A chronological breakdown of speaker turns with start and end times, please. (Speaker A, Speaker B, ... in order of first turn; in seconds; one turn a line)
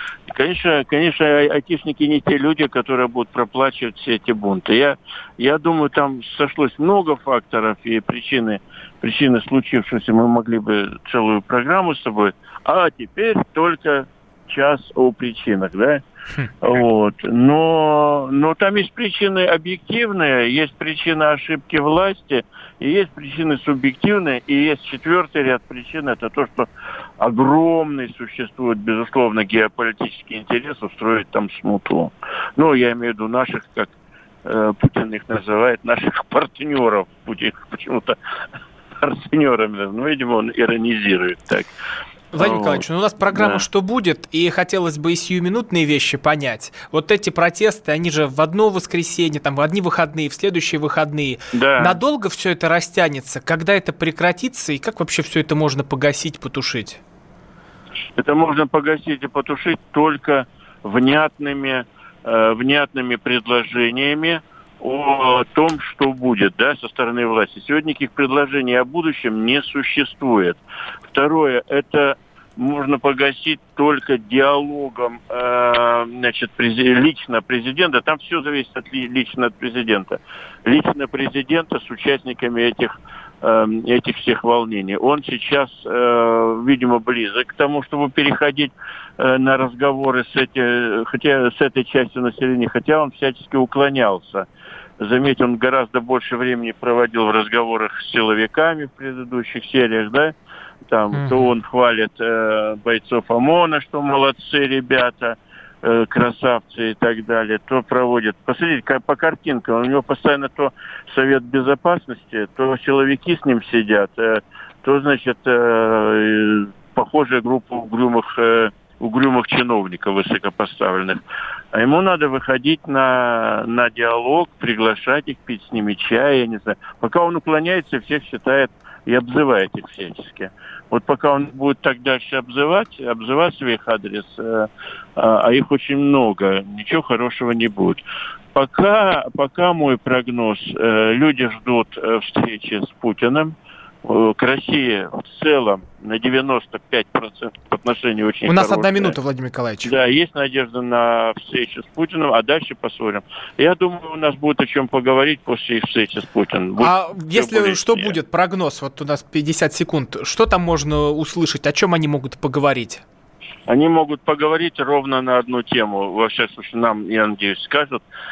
Speaker A: 0.3-16.0
Speaker A: 16.6-26.7
Speaker A: 27.2-33.9
Speaker A: 34.5-38.2
Speaker A: 39.0-41.7
Speaker B: 42.3-57.0
Speaker A: 42.4-43.6
Speaker A: 51.5-52.0
Speaker A: 58.2-70.6
Speaker A: 71.1-94.5
Speaker A: 95.0-100.3
Speaker A: 100.9-121.2
Speaker B: 101.1-101.5
Speaker A: 121.7-138.0
Speaker A: 138.6-149.2
Speaker B: 148.5-149.9
Speaker A: 149.8-158.2
Speaker B: 156.8-163.0
Speaker A: 163.7-168.0